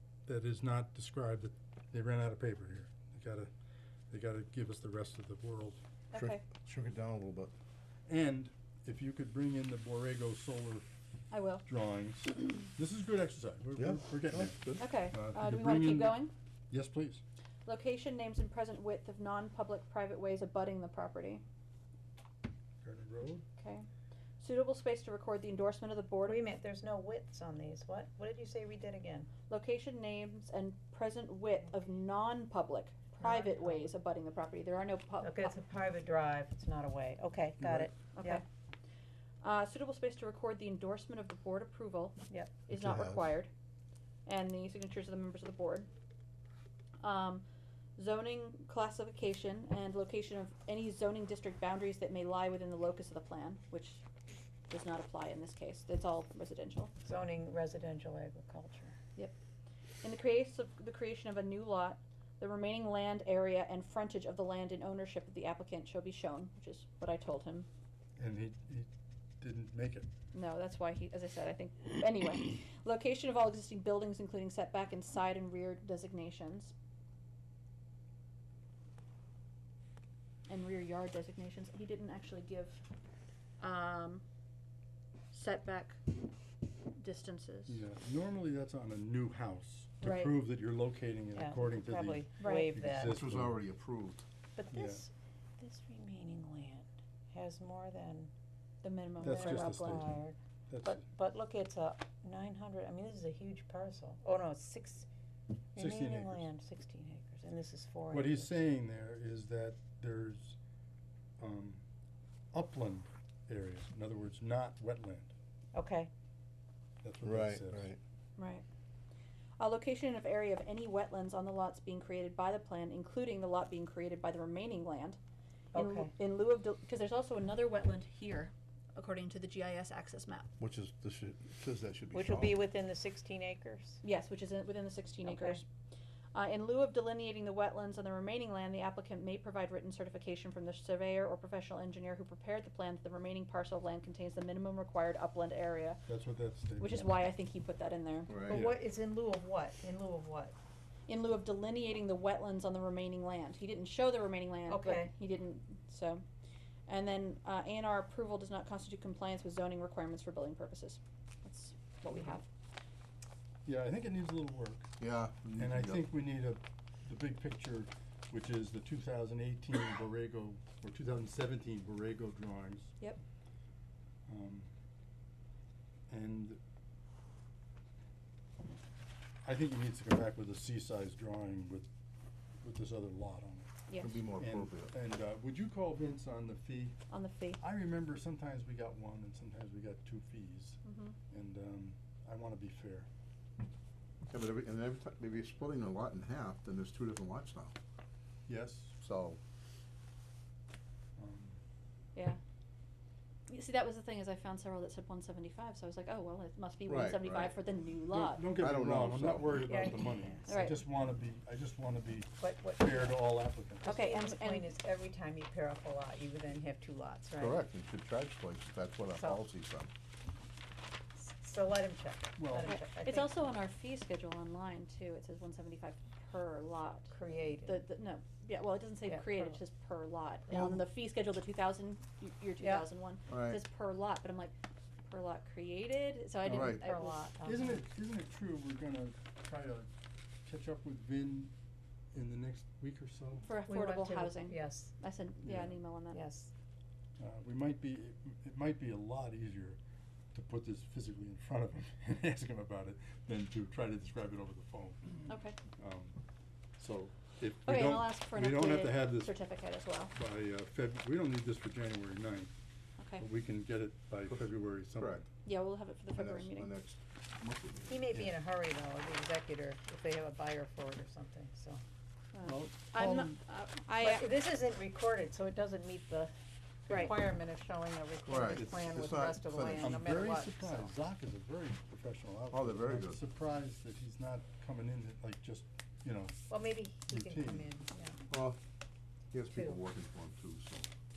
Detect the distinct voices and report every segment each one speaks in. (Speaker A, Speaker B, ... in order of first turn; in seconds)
Speaker A: 0.2-3.5, 4.1-5.8, 8.1-10.9, 11.6-17.2, 22.8-23.4, 37.6-37.9, 68.2-70.1, 87.7-93.6, 94.7-95.0, 99.2-101.0, 105.8-106.5, 108.1-110.6, 111.4-111.8, 112.5-115.3, 117.0-117.9, 146.1-147.2, 148.5-148.8, 163.6-164.9, 165.6-172.9, 174.3-174.7, 176.1-176.6, 179.4-181.9, 182.6-183.7, 184.3-187.0, 187.6-193.1, 198.5-198.9, 201.2-201.6, 208.1-213.9, 222.4-222.7, 237.4-239.9, 240.4-241.5, 242.1-243.5, 245.4-245.9, 247.2-249.8, 250.3-256.2, 256.8-259.4, 260.1-262.5, 263.2-265.2, 272.4-273.4, 278.4-279.2, 279.8-286.5, 287.1-287.7
Speaker B: 6.1-6.4, 11.3-11.6, 14.8-16.3, 17.6-21.4, 23.6-23.9, 24.4-26.4, 29.5-35.5, 38.1-38.4, 39.4-43.5, 44.2-45.9, 47.0-47.4, 48.0-54.0, 54.7-56.9, 60.0-67.7, 70.3-76.7, 80.5-82.8, 83.6-84.2, 85.3-86.0, 86.9-87.8, 90.0-90.3, 92.4-92.7, 98.8-100.1, 118.4-118.6, 119.6-125.2, 125.7-130.5, 134.0-135.7, 136.3-146.0, 146.8-148.6, 151.1-156.2, 156.9-162.5, 183.9-184.2, 187.1-187.6, 190.8-191.2, 203.5-208.5, 210.5-210.8, 213.8-214.7, 222.6-234.5, 235.1-237.2, 243.4-246.2, 255.3-255.6, 257.6-260.1, 263.0-263.2, 265.4-266.7, 272.3-274.3, 276.9-277.1
Speaker C: 6.1-7.5, 13.8-14.8, 42.7-43.2, 93.1-94.2, 117.2-118.0, 130.6-132.6, 148.3-148.6, 165.0-166.1, 184.0-184.9, 194.3-197.7, 199.0-199.4, 206.8-207.5, 208.6-209.6, 217.4-219.9, 233.3-233.6, 236.4-236.8, 264.3-265.2, 266.1-268.1, 278.2-280.0, 282.5-283.2, 288.3-288.6, 289.3-290.9
Speaker D: 26.2-29.3, 33.2-33.9, 35.2-38.4, 42.3-42.6, 57.0-59.0, 91.3-93.2, 94.6-98.3, 99.2-105.1, 105.7-108.5, 115.7-116.1, 125.7-126.1, 132.1-134.0, 135.2-135.6, 148.5-150.6, 154.7-155.1, 209.6-210.4, 212.4-213.3, 213.8-217.6, 221.1-223.4, 227.1-227.8, 229.1-229.6, 230.5-230.8, 232.6-232.8, 236.6-237.8, 243.7-244.9, 246.1-246.5, 267.9-271.8, 274.0-276.3, 276.9-280.9, 286.5-288.2, 289.5-289.8